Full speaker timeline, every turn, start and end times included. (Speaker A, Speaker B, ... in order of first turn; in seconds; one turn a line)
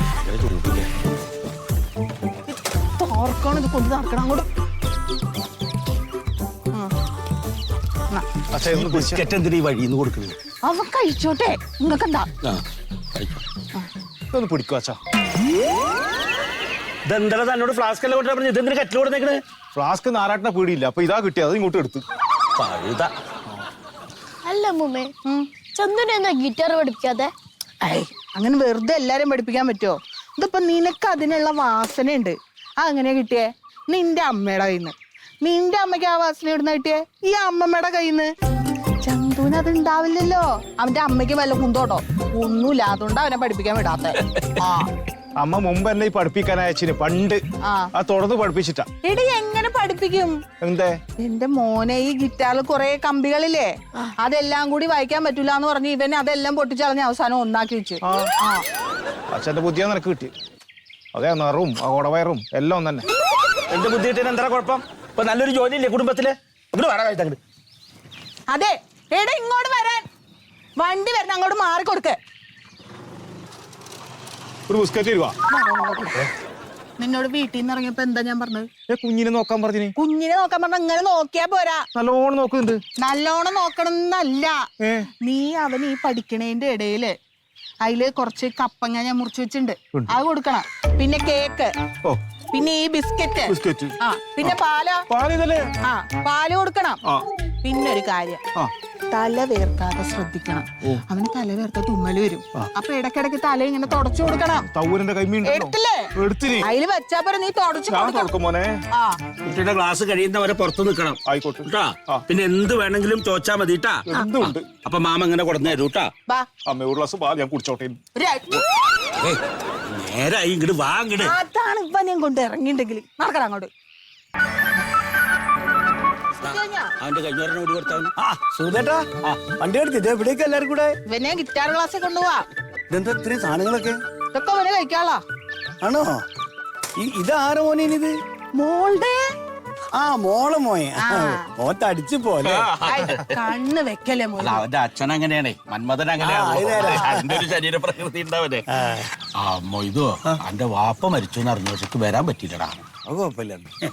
Speaker A: 0.2-0.9
Speaker B: 3.0-4.5
Speaker C: 8.5-9.2
Speaker A: 8.7-10.4
Speaker B: 10.6-12.3
Speaker C: 14.3-15.0
Speaker A: 17.1-19.4
Speaker C: 19.7-22.0
Speaker A: 22.6-23.1
Speaker D: 24.5-25.1
Speaker D: 25.8-27.3
Speaker B: 27.8-38.3
Speaker B: 39.0-44.9
Speaker C: 45.4-47.4
Speaker C: 48.0-48.9
Speaker B: 49.0-50.4
Speaker C: 50.6-51.0
Speaker B: 51.2-58.6
Speaker C: 58.0-58.3
Speaker C: 59.3-60.3
Speaker C: 61.1-63.1
Speaker A: 63.7-67.4
Speaker B: 68.5-70.0
Speaker B: 70.8-72.2
Speaker C: 74.7-75.4
Speaker B: 75.5-76.3
Speaker B: 77.0-78.7
Speaker C: 78.9-79.9
Speaker B: 80.0-81.8
Speaker C: 81.9-82.8
Speaker B: 83.0-84.6
Speaker C: 84.8-85.1
Speaker B: 85.2-87.2
Speaker B: 87.8-91.7
Speaker B: 92.5-95.1
Speaker C: 93.5-94.6
Speaker C: 95.1-95.7
Speaker B: 95.8-97.0
Speaker B: 97.6-98.4
Speaker B: 99.1-104.7
Speaker C: 104.7-106.7
Speaker B: 105.4-106.1
Speaker B: 106.6-108.3
Speaker C: 107.9-108.8
Speaker B: 108.9-109.2
Speaker A: 109.4-116.1
Speaker C: 111.3-112.2
Speaker C: 114.1-114.7
Speaker C: 116.7-118.0
Speaker B: 118.2-118.6
Speaker A: 119.2-121.3
Speaker B: 121.2-123.7
Speaker B: 126.4-126.9
Speaker A: 126.4-128.1
Speaker E: 128.2-131.0
Speaker B: 131.1-132.4
Speaker E: 132.9-134.0
Speaker B: 134.3-135.2
Speaker E: 135.8-136.2
Speaker E: 137.0-138.2
Speaker B: 138.6-139.2
Speaker E: 139.9-142.7
Speaker B: 141.0-141.5
Speaker A: 142.4-143.3
Speaker B: 142.9-144.6
Speaker A: 144.4-148.7
Speaker E: 146.2-147.5
Speaker A: 149.4-152.9
Speaker E: 152.9-153.7